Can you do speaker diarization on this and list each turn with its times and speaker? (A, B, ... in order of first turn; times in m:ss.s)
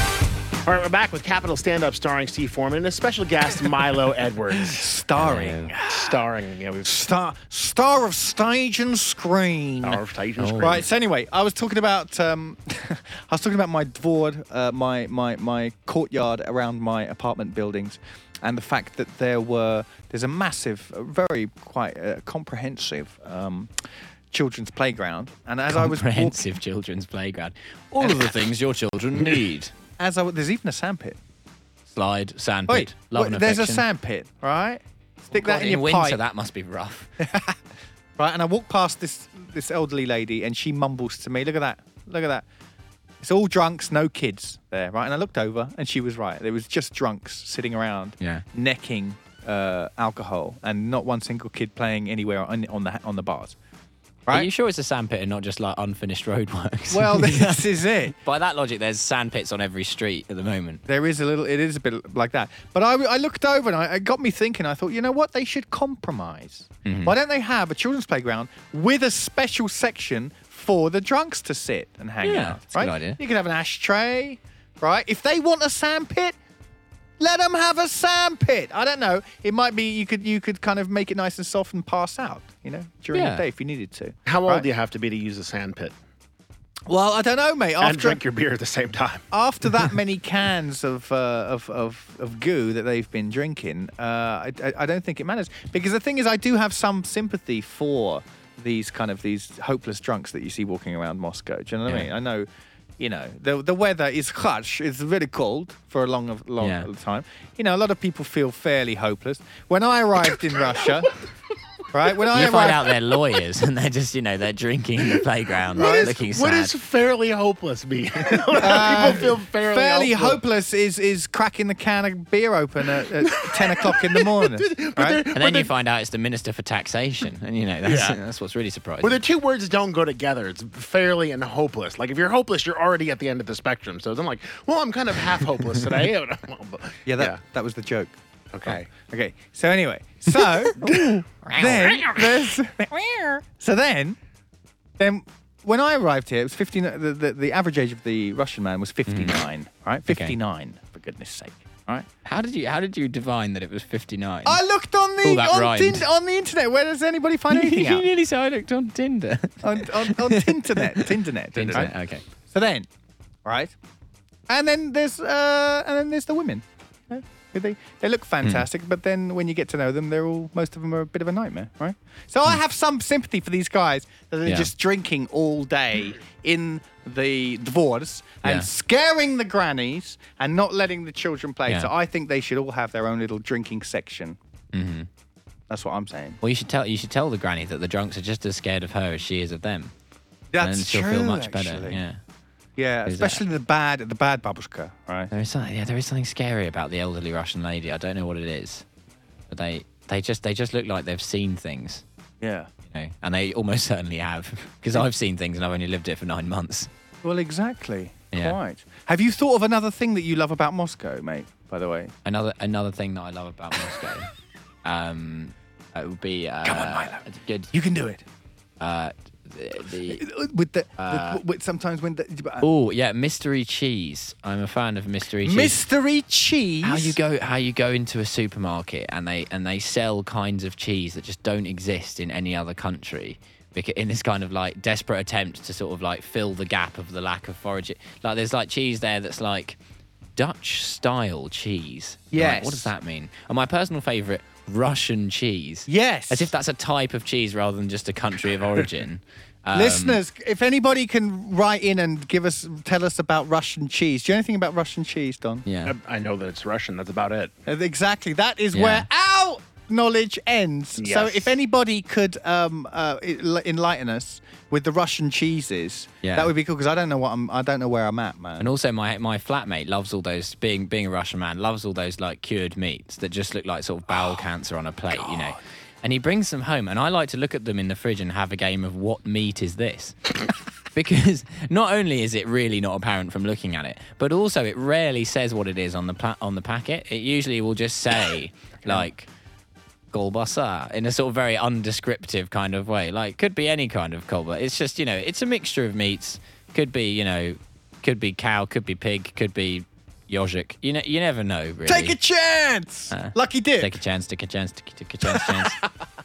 0:00.6-0:04.9 A
0:04.7-0:06.2 B
0:05.2-0:05.7 C
0:05.9-0:06.9 A
0:06.8-0:10.0 B
0:09.8-0:10.8 A
0:10.4-0:10.8 C
0:10.6-0:23.7 B
0:24.3-0:26.4 B
0:25.7-0:29.7 C
0:28.0-0:28.4 B
0:30.0-0:31.2 B
0:31.9-0:33.8 C
0:32.7-0:36.2 B
0:35.3-0:37.1 C
0:37.2-0:37.6 B
0:38.2-0:42.4 B
0:43.2-0:53.6 B
0:54.3-1:00.8 C
0:56.9-0:58.2 B
1:00.9-1:16.4 B
1:06.8-1:07.2 C
1:12.2-1:13.2 C
1:17.2-1:24.6 B
1:23.1-1:23.4 C
1:24.3-1:25.9 A
1:26.8-1:28.2 B
1:27.8-1:29.2 A
1:29.3-1:42.5 B
1:43.0-1:51.1 B
1:46.6-1:46.9 C
1:51.9-1:53.0 B
1:52.3-1:56.7 C
1:55.7-1:56.2 B
1:55.7-2:00.4 A
1:58.6-2:05.2 B
2:03.2-2:05.7 A
2:05.3-2:09.2 C
2:07.8-2:08.2 A
2:09.0-2:17.4 A
2:17.0-2:18.1 B
2:18.5-2:18.9 A
2:18.6-2:20.9 B
2:20.8-2:21.9 C
2:20.8-2:21.2 A
2:21.5-2:24.2 B
2:21.8-2:22.3 A
2:25.0-2:32.0 B
2:29.1-2:29.4 C
2:30.1-2:30.4 C
2:32.2-2:34.6 C
2:34.4-2:38.1 B
2:35.2-2:36.1 C
2:37.5-2:42.2 C
2:39.6-2:41.9 B
2:42.5-2:42.9 B
2:43.4-2:43.7 B
2:44.5-3:04.4 B
2:54.4-2:54.7 C
2:58.4-2:58.7 C
3:04.7-3:05.1 C
3:05.7-3:06.4 B
3:06.4-3:09.9 C
3:10.5-3:12.0 B
3:10.6-3:12.2 C
3:12.8-3:15.3 B
3:13.0-3:13.4 C
3:15.3-3:18.8 C
3:19.5-3:22.0 C
3:22.4-3:22.7 B
3:22.9-3:26.9 C
3:27.2-3:32.1 B
3:28.3-3:28.6 C
3:32.2-3:34.3 C
3:34.8-3:37.7 C
3:36.6-3:38.2 B
3:38.8-3:40.2 C
3:40.0-3:42.7 B
3:41.0-3:41.4 C
3:42.6-3:45.8 C
3:45.4-3:47.2 B
3:46.8-3:59.8 C
4:00.4-4:10.2 C
4:02.3-4:02.9 B
4:05.9-4:06.5 B
4:09.7-4:15.6 B
4:15.6-4:15.9 C
4:15.8-4:17.5 A
4:17.6-4:28.7 B
4:18.7-4:19.1 C
4:21.0-4:21.6 A
4:26.2-4:26.5 C
4:28.6-4:49.3 C
4:50.1-5:02.2 C
5:01.8-5:03.9 B
5:03.1-5:05.8 C
5:05.3-5:05.8 B